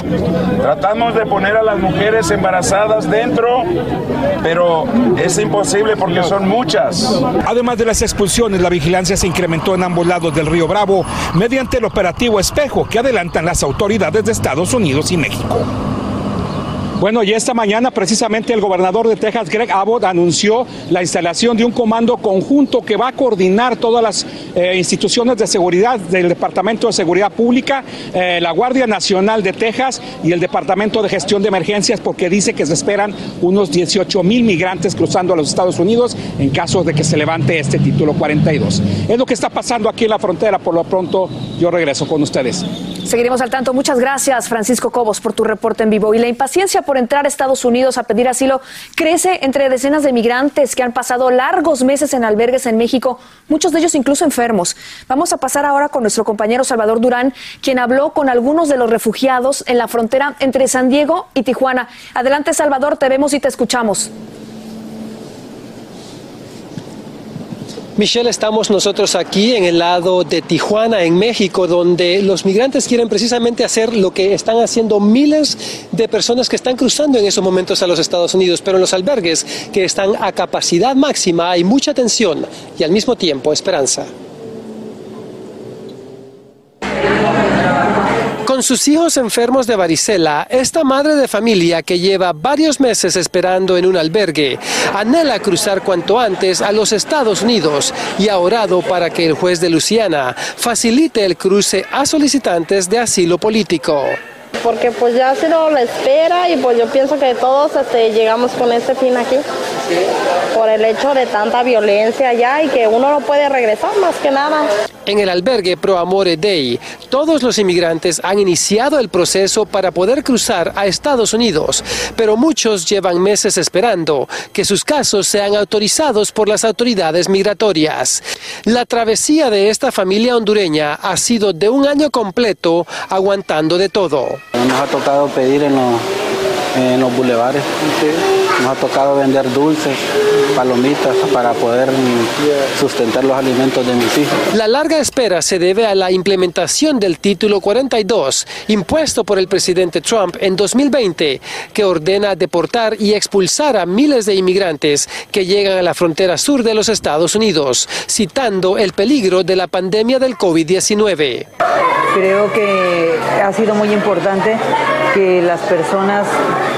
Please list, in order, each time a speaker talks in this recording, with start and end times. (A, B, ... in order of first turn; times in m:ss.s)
0:00.6-0:03.7 A
0:04.4-0:07.2 A
0:07.5-0:15.7 B
0:17.0-0:42.6 B
0:43.0-1:04.1 C
1:08.0-1:24.1 D
1:28.5-1:44.2 D
1:44.6-1:49.4 E
1:50.5-1:54.7 E
1:55.1-2:14.4 D
2:14.6-2:16.0 F
2:16.8-2:20.0 F
2:20.6-2:24.3 F
2:24.5-2:41.5 D
2:42.2-2:44.6 G
2:45.1-2:46.3 G